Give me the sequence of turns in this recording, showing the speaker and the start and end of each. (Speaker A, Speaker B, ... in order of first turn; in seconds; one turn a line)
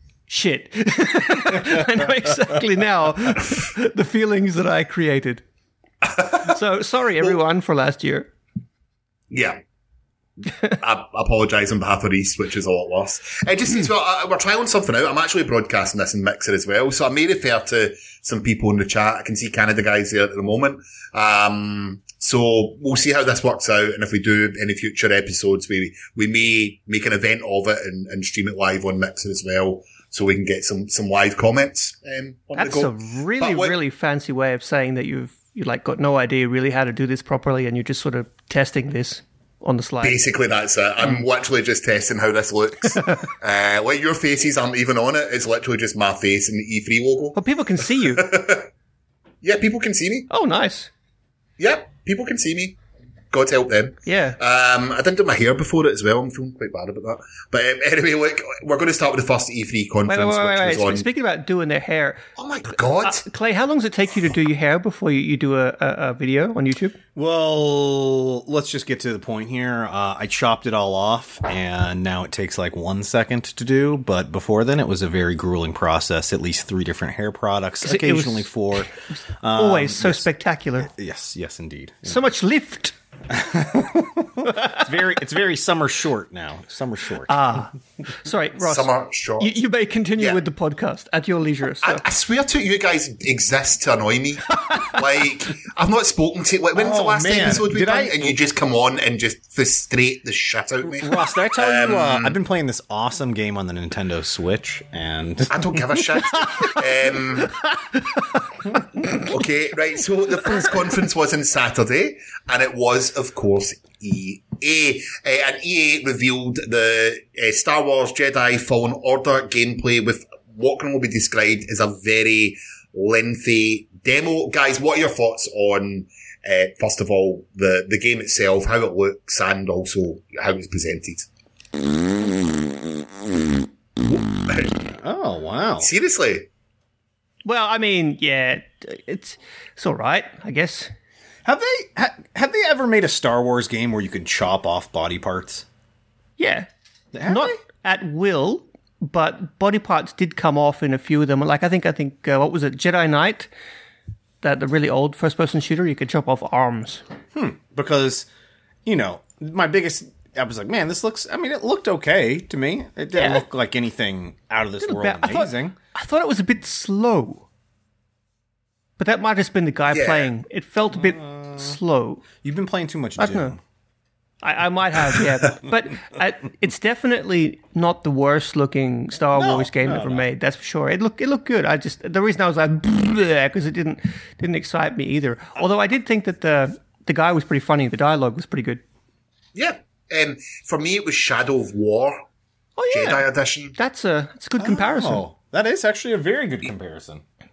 Speaker A: 0.3-5.4
Speaker B: 6.0-6.5
Speaker A: 6.3-8.3
Speaker B: 9.3-9.6
Speaker B: 10.7-33.8
Speaker A: 32.5-40.2
Speaker B: 40.0-48.7
Speaker A: 43.0-43.2
Speaker A: 47.3-48.3
Speaker B: 49.4-50.3
Speaker A: 50.3-50.9
Speaker B: 51.6-52.8
Speaker B: 53.3-61.0
Speaker A: 54.0-54.4
Speaker A: 60.1-62.2
Speaker B: 62.4-63.2
Speaker A: 63.0-66.9
Speaker C: 67.1-80.2
Speaker A: 77.8-80.9
Speaker C: 80.8-82.2
Speaker A: 82.0-82.9
Speaker C: 83.3-87.6
Speaker A: 84.4-84.8
Speaker A: 87.3-92.0
Speaker B: 88.6-89.5
Speaker B: 91.8-102.3
Speaker A: 94.6-95.0
Speaker C: 96.8-98.3
Speaker C: 100.8-106.0
Speaker B: 105.5-107.5
Speaker A: 106.3-106.8
Speaker A: 107.4-109.2
Speaker B: 109.1-131.3
Speaker B: 134.0-134.8
Speaker C: 134.9-135.9
Speaker B: 135.8-136.5
Speaker A: 137.4-140.9
Speaker C: 141.4-145.7
Speaker A: 146.4-146.7
Speaker C: 147.1-147.5
Speaker A: 147.3-153.5
Speaker A: 154.4-157.0
Speaker C: 157.3-158.3
Speaker C: 158.8-165.7
Speaker A: 163.1-163.4
Speaker A: 164.8-167.4
Speaker A: 169.0-172.2
Speaker B: 169.9-170.3
Speaker C: 170.9-171.8
Speaker C: 172.4-173.6
Speaker A: 173.2-173.5
Speaker A: 174.4-188.8
Speaker C: 179.3-180.2
Speaker B: 189.5-192.3
Speaker A: 192.8-193.2
Speaker B: 192.9-193.8
Speaker A: 193.8-195.2
Speaker C: 194.6-197.2